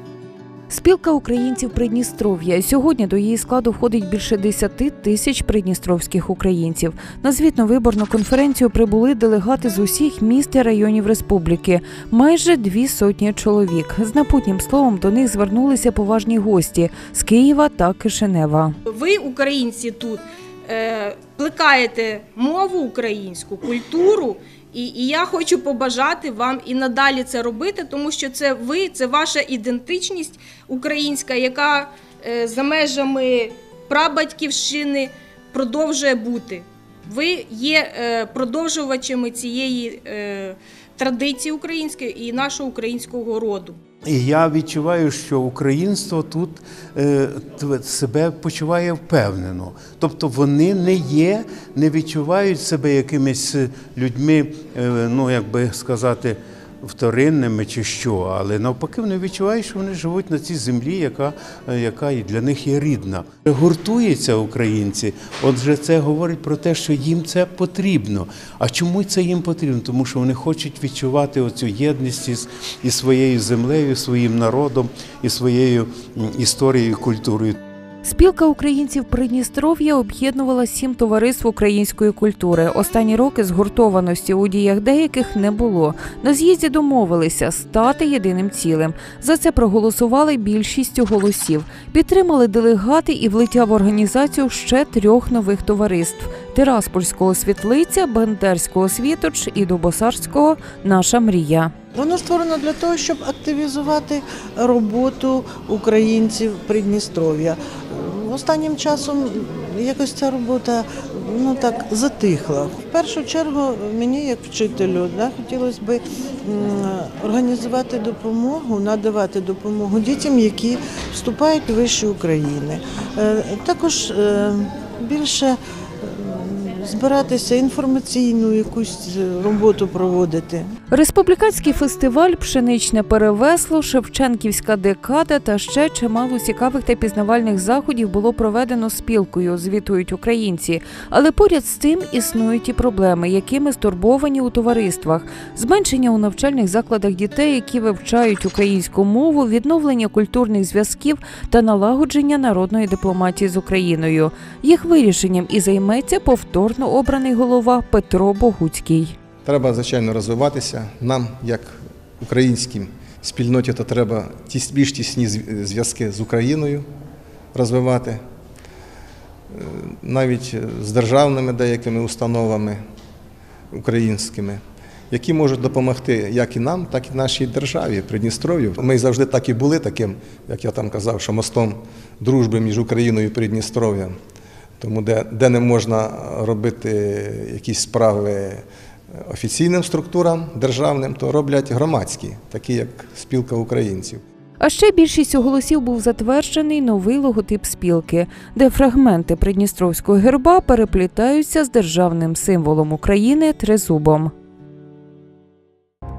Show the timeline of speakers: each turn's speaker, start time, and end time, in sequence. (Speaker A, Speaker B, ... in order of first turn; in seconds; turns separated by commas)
Speaker A: 0.7-18.8, Speaker B: 18.9-43.8, Speaker C: 44.0-77.6, Speaker A: 78.0-101.7, Speaker D: 101.9-130.7, Speaker A: 130.9-159.2, Speaker E: 159.4-166.9, Speaker E: 167.5-168.2, Speaker E: 169.5-172.8, Speaker E: 173.7-184.1, Speaker E: 184.8-188.7, Speaker E: 189.3-194.2, Speaker A: 194.6-204.3